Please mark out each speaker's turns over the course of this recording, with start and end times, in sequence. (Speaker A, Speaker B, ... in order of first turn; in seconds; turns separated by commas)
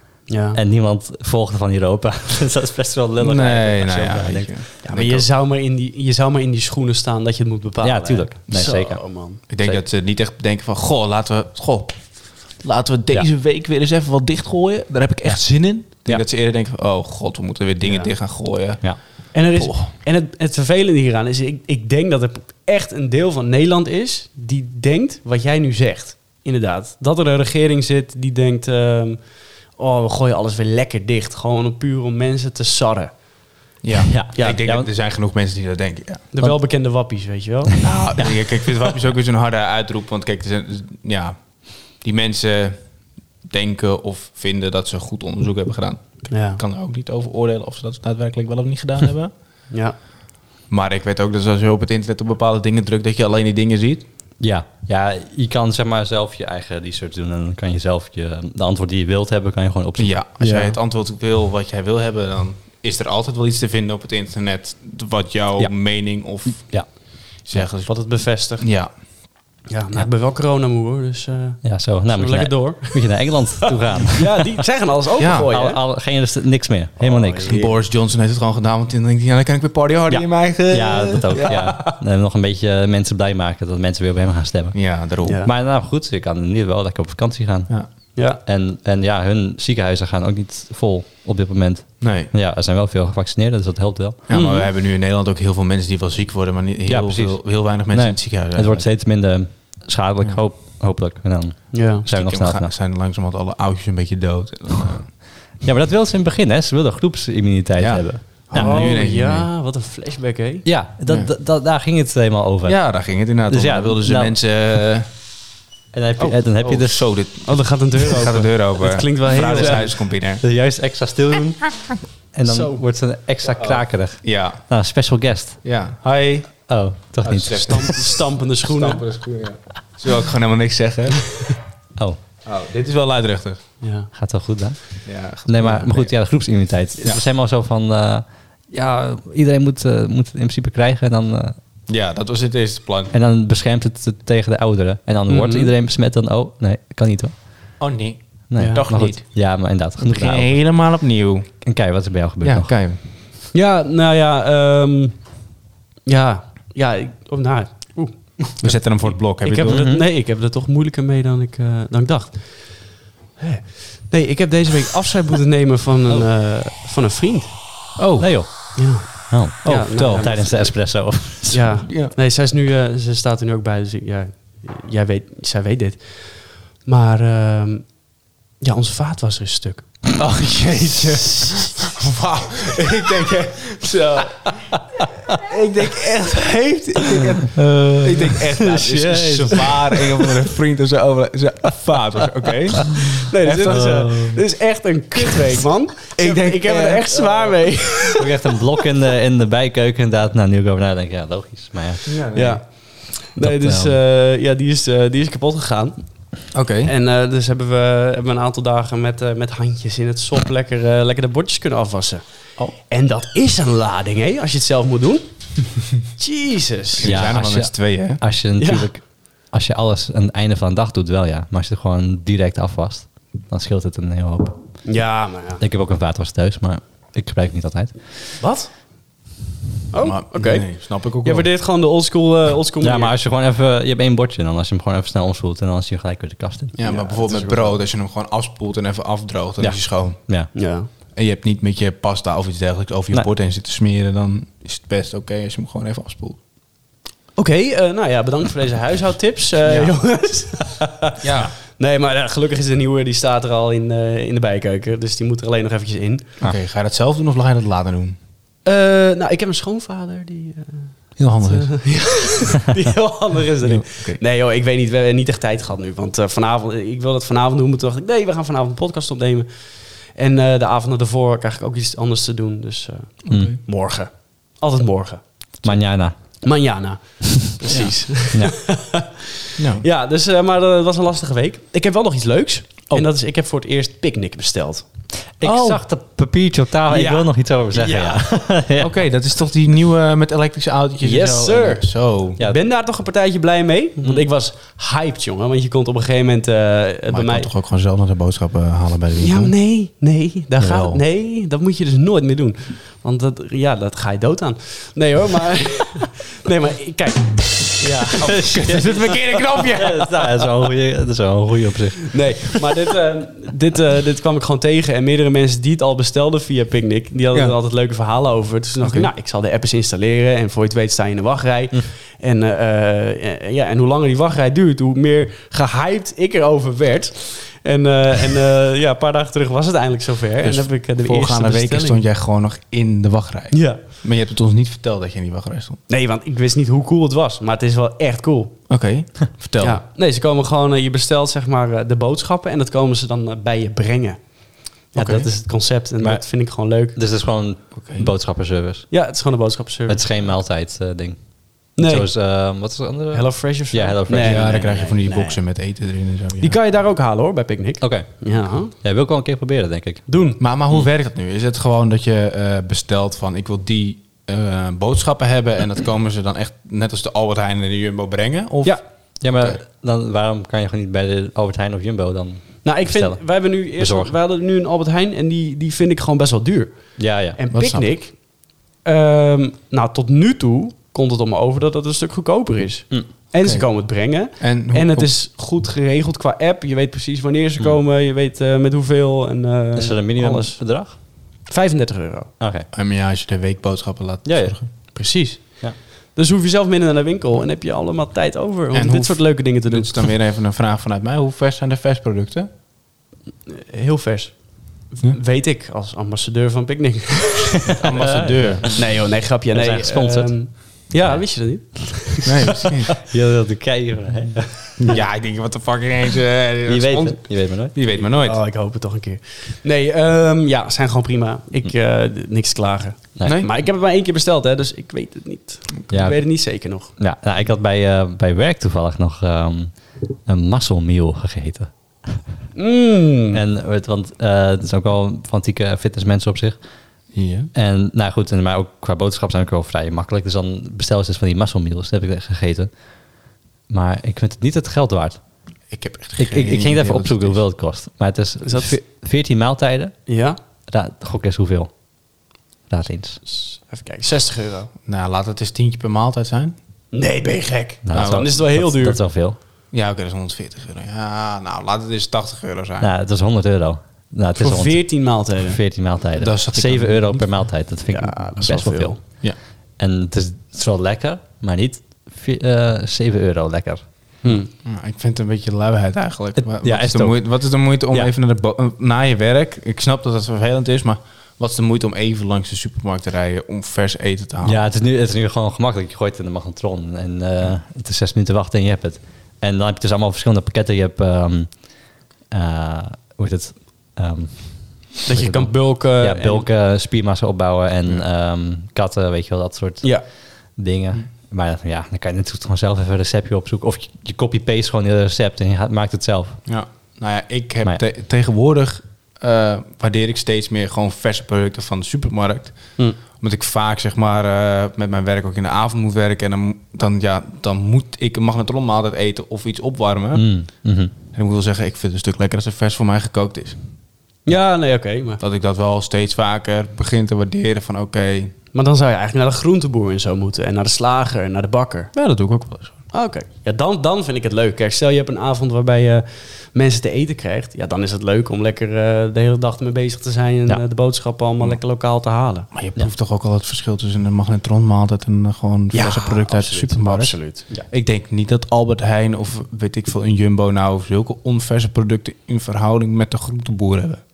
Speaker A: 0.3-0.6, Speaker B: 0.5-4.6, Speaker C: 3.2-5.3, Speaker A: 4.8-9.4, Speaker B: 7.8-9.0, Speaker C: 9.5-19.9, Speaker A: 17.8-18.1, Speaker A: 19.3-33.2, Speaker C: 33.8-36.2, Speaker B: 34.0-34.9, Speaker A: 34.4-34.6, Speaker A: 36.3-37.7, Speaker C: 37.8-42.9, Speaker B: 38.2-38.9, Speaker C: 43.4-49.3, Speaker A: 46.3-46.6, Speaker A: 49.7-50.0, Speaker C: 50.7-54.0, Speaker B: 54.4-60.2, Speaker C: 60.0-67.9, Speaker A: 60.4-60.8, Speaker A: 67.8-68.7, Speaker C: 68.6-68.9, Speaker A: 69.7-75.8, Speaker B: 71.6-74.5, Speaker C: 75.2-75.5, Speaker B: 75.5-77.5, Speaker A: 77.0-77.8, Speaker C: 77.4-81.6, Speaker B: 80.1-94.2, Speaker A: 81.3-81.9, Speaker C: 84.7-85.4, Speaker A: 85.2-85.5, Speaker A: 88.1-88.4, Speaker C: 92.0-92.3, Speaker C: 94.3-98.9, Speaker A: 94.3-94.7, Speaker B: 96.9-102.7, Speaker A: 101.7-102.0, Speaker C: 102.0-105.1, Speaker B: 105.5-108.9, Speaker C: 107.8-109.5, Speaker A: 108.5-110.6, Speaker B: 110.6-114.3, Speaker C: 111.1-111.3, Speaker C: 112.6-115.1, Speaker B: 115.9-117.1, Speaker C: 116.6-120.4, Speaker A: 117.4-119.9, Speaker B: 119.5-119.9, Speaker B: 120.4-125.7, Speaker A: 122.4-122.8, Speaker C: 123.5-124.6, Speaker C: 125.6-126.6, Speaker B: 126.7-128.1, Speaker C: 127.2-128.1, Speaker A: 127.5-129.0, Speaker C: 128.6-131.4, Speaker C: 132.4-133.6, Speaker A: 133.8-134.1, Speaker B: 134.1-141.6, Speaker C: 135.0-136.1, Speaker C: 141.9-143.1, Speaker B: 143.1-147.4, Speaker A: 145.3-145.7, Speaker C: 147.8-149.3, Speaker B: 148.5-150.6, Speaker A: 148.6-148.9, Speaker C: 150.0-151.6, Speaker B: 151.6-152.8, Speaker C: 152.4-153.0, Speaker A: 153.5-155.3, Speaker A: 156.1-168.0, Speaker C: 158.6-159.8, Speaker B: 159.7-160.0, Speaker C: 168.0-168.5, Speaker B: 168.2-171.8, Speaker A: 168.7-178.1, Speaker C: 169.6-170.3, Speaker C: 171.9-172.1, Speaker A: 178.6-179.9, Speaker C: 180.2-184.8, Speaker A: 185.0-185.4, Speaker C: 185.3-194.1, Speaker A: 187.6-190.3, Speaker A: 192.9-198.5, Speaker B: 193.7-194.4, Speaker C: 196.2-197.8, Speaker B: 198.2-202.1, Speaker C: 202.1-202.6, Speaker A: 202.3-217.1, Speaker B: 203.4-203.9, Speaker C: 206.5-206.9, Speaker C: 217.0-218.2, Speaker B: 217.0-225.0, Speaker A: 218.6-218.9, Speaker A: 224.8-225.6, Speaker B: 225.6-228.4, Speaker A: 228.4-228.7, Speaker A: 229.9-233.1, Speaker C: 230.0-231.5, Speaker B: 232.8-236.8, Speaker C: 236.8-240.2, Speaker A: 236.8-237.8, Speaker B: 239.6-240.5, Speaker A: 240.5-240.9, Speaker C: 241.1-246.4, Speaker A: 247.3-256.3, Speaker C: 249.6-249.9, Speaker C: 251.2-251.5, Speaker C: 256.4-258.2, Speaker A: 258.6-284.9, Speaker C: 261.2-261.7, Speaker C: 263.6-264.2, Speaker C: 273.2-273.6, Speaker B: 273.3-273.5, Speaker B: 275.6-276.4, Speaker C: 277.7-277.9, Speaker C: 279.6-279.8, Speaker B: 285.4-288.9, Speaker C: 285.4-285.8, Speaker A: 286.9-288.2, Speaker C: 288.8-292.4, Speaker A: 291.0-297.5, Speaker C: 297.1-299.5, Speaker A: 299.2-309.8, Speaker C: 300.6-301.0, Speaker B: 307.8-308.9, Speaker C: 308.2-310.2, Speaker B: 309.7-312.6, Speaker A: 312.1-332.0, Speaker C: 318.8-319.1, Speaker C: 330.4-335.8, Speaker A: 333.5-333.8, Speaker A: 335.9-338.6, Speaker C: 338.7-339.8, Speaker A: 339.6-347.0, Speaker C: 344.9-345.3, Speaker B: 346.0-348.9, Speaker C: 347.7-348.1, Speaker A: 348.9-350.0, Speaker B: 349.9-354.7, Speaker A: 351.8-352.1, Speaker A: 353.1-355.4, Speaker C: 354.2-356.6, Speaker A: 356.4-358.7, Speaker B: 357.8-360.0, Speaker A: 360.1-360.4, Speaker C: 360.4-368.8, Speaker B: 369.2-374.1, Speaker A: 372.6-378.2, Speaker B: 377.0-377.4, Speaker C: 377.5-377.9, Speaker A: 378.8-390.6, Speaker C: 383.4-383.7, Speaker C: 384.2-385.1, Speaker B: 389.7-391.0, Speaker A: 391.4-392.3, Speaker B: 392.4-392.7, Speaker C: 392.7-394.7, Speaker B: 394.2-395.0, Speaker A: 394.9-400.1, Speaker C: 398.7-402.5, Speaker A: 403.5-407.8, Speaker C: 407.8-408.7, Speaker B: 407.9-408.8, Speaker A: 408.6-412.7, Speaker B: 409.5-411.2, Speaker C: 412.2-412.9, Speaker B: 413.0-415.0, Speaker C: 414.8-418.4, Speaker B: 416.6-417.7, Speaker A: 418.2-426.9, Speaker C: 423.2-423.5, Speaker B: 425.9-432.2, Speaker A: 432.6-433.4, Speaker B: 433.3-436.6, Speaker C: 437.1-437.5, Speaker B: 437.5-442.7, Speaker B: 443.7-445.2, Speaker C: 445.7-447.4, Speaker B: 446.2-450.0, Speaker A: 448.4-448.8, Speaker A: 450.1-450.4, Speaker B: 450.7-451.7, Speaker B: 452.7-453.2, Speaker A: 453.2-454.7, Speaker C: 454.8-456.6, Speaker A: 456.9-459.0, Speaker B: 457.8-459.4, Speaker C: 457.9-458.3, Speaker C: 459.7-462.9, Speaker B: 462.8-469.2, Speaker A: 464.4-465.6, Speaker C: 466.2-467.3, Speaker A: 467.9-469.0, Speaker B: 469.8-473.8, Speaker A: 474.2-474.5, Speaker C: 474.2-484.6, Speaker B: 476.4-478.1, Speaker B: 484.4-491.8, Speaker B: 492.3-506.4, Speaker A: 495.1-496.5, Speaker C: 506.4-520.3, Speaker B: 520.1-520.9, Speaker C: 521.1-523.6, Speaker A: 524.2-525.2, Speaker C: 525.2-528.3, Speaker A: 528.5-531.9, Speaker C: 531.9-532.8, Speaker A: 532.9-542.5, Speaker C: 542.5-554.0, Speaker A: 545.7-547.5